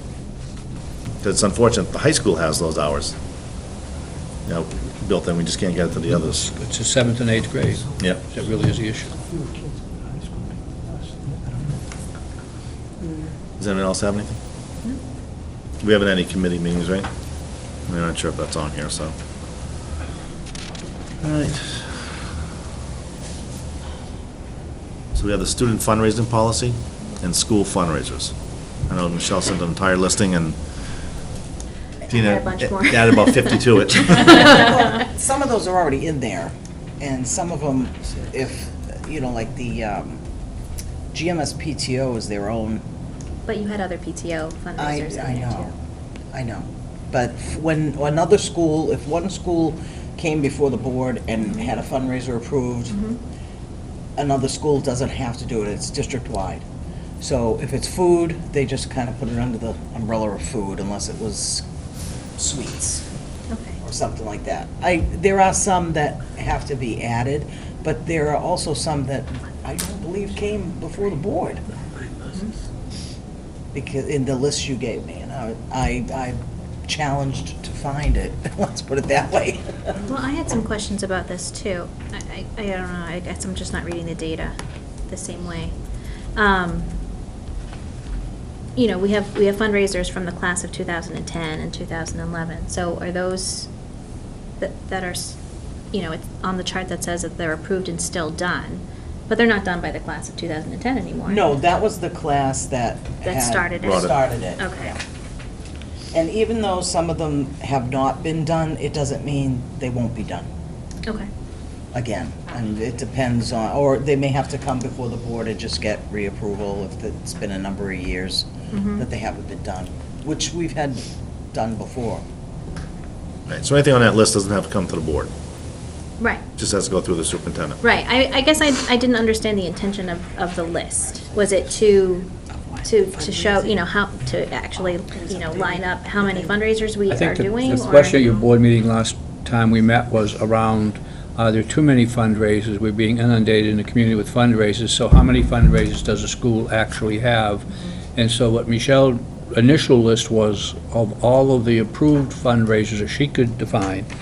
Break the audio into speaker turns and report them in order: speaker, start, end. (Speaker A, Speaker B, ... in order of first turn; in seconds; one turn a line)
Speaker A: 1.2-3.2
Speaker A: 4.5-6.5
Speaker B: 6.4-9.2
Speaker A: 13.6-14.4
Speaker A: 15.8-17.1
Speaker A: 17.9-19.1
Speaker A: 25.1-28.3
Speaker A: 28.9-30.6
Speaker C: 32.1-34.7
Speaker A: 32.1-34.4
Speaker D: 34.4-40.2
Speaker D: 41.1-42.8
Speaker C: 43.5-45.7
Speaker D: 44.8-45.7
Speaker D: 46.3-53.0
Speaker C: 52.9-53.2
Speaker D: 54.2-56.6
Speaker D: 57.2-61.6
Speaker D: 62.4-63.0
Speaker C: 63.5-63.8
Speaker D: 63.8-71.8
Speaker D: 73.7-80.0
Speaker C: 80.0-84.6
Speaker C: 85.1-85.7
Speaker C: 86.4-86.9
Speaker C: 88.8-93.7
Speaker C: 94.6-95.4
Speaker C: 95.9-101.5
Speaker D: 101.2-105.0
Speaker C: 103.2-105.0
Speaker A: 103.8-104.1
Speaker D: 106.1-110.5
Speaker D: 111.9-122.2
Speaker C: 118.7-119.0
Speaker A: 123.5-125.3
Speaker C: 126.2-126.4
Speaker A: 126.6-127.8
Speaker C: 127.8-132.3
Speaker C: 132.8-138.4
Speaker D: 133.3-133.7
Speaker D: 135.2-136.5
Speaker B: 137.1-154.1